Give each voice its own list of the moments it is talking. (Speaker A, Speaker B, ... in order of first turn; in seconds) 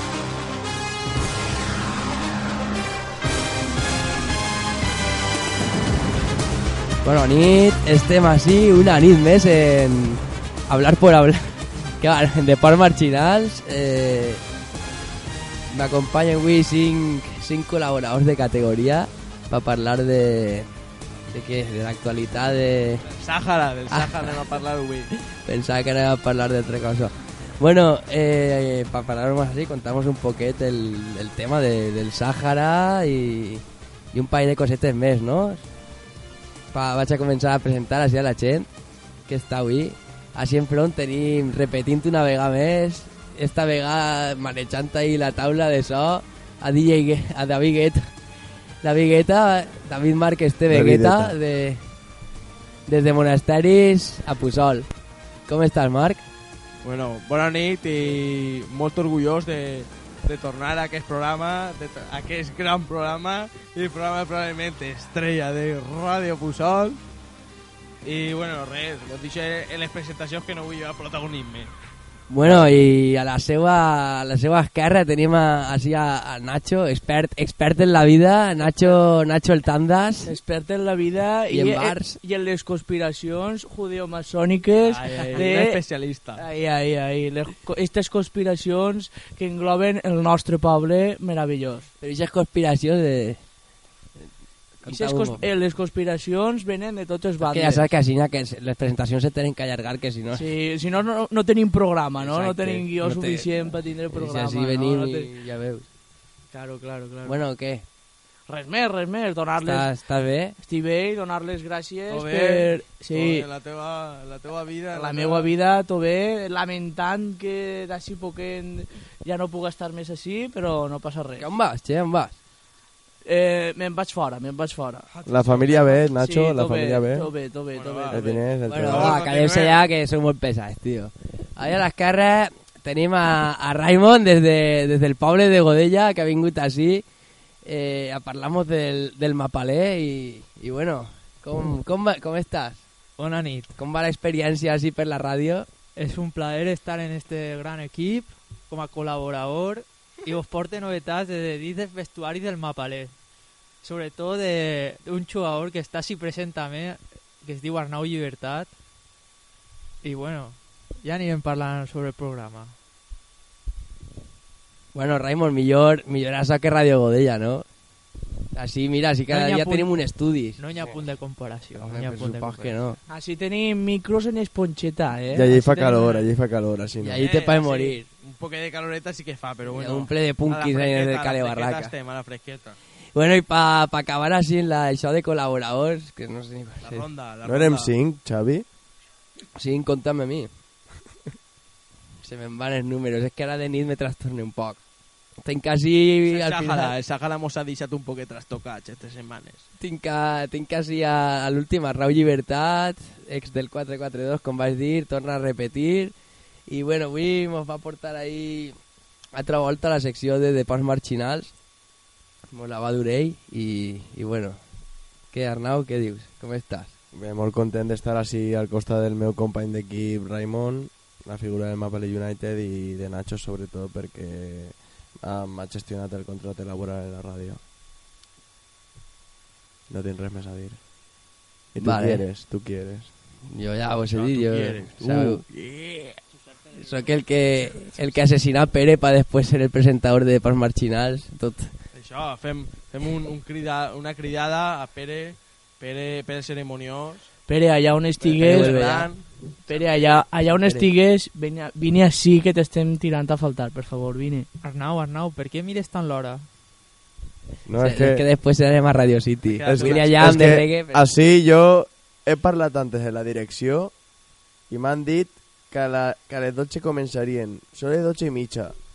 Speaker A: 7.0-14.4, 15.7-20.7, 21.3-23.1, 23.9-24.4, 25.2-35.6, 36.7-38.7, 39.3-48.1, 48.8-51.8, 52.9-54.9, 55.5-56.3, 72.3-80.4, 81.5-82.2, 92.0-93.4, 94.8-95.4, 97.4-100.5, 102.2-103.5, 104.1-105.9, 107.2-107.8, 109.6-110.6, 121.4-122.3, 128.7-137.1, 137.6-142.8, 143.8-145.7, 164.9-167.7, 168.5-171.0, 171.8-173.0, 177.0-178.1, 179.7-181.9, 183.2-187.1, 189.6-190.5, 192.2-194.8, 195.4-196.9, 199.8-206.2, 206.7-208.8, 209.3-211.5, 212.5-214.6, 215.3-216.9, 231.8-232.2, 233.5-235.4, 236.7-241.7, 248.4-249.1, 250.6-250.9, 257.8-261.0
Speaker B: 23.2-25.1, 56.8-67.0, 68.0-71.7, 84.8-86.4, 112.1-115.5, 125.2-125.9, 127.8-128.2, 128.8-129.8, 177.2-182.8, 186.8-187.9, 196.2-199.7, 234.1-236.2, 241.9-247.3, 248.3-250.2, 259.4-260.6
Speaker C: 50.7-51.4, 125.3-127.3, 128.1-129.2, 175.3-177.2, 187.4-188.7, 217.1-227.6, 229.9-230.8, 231.7-233.1, 257.7-258.3, 259.7-263.9, 264.7-268.8
Speaker D: 80.2-85.8, 86.3-91.9, 94.8-97.9, 100.3-105.3, 106.5-107.4, 108.5-109.9, 110.6-113.5, 114.9-121.5, 123.2-125.1, 126.0-128.4, 173.1-176.2, 247.5-248.8, 249.7-254.5
Speaker E: 143.2-143.8, 146.0-153.1, 153.8-158.7, 160.0-162.8, 169.3-170.0, 170.6-172.8, 254.6-256.4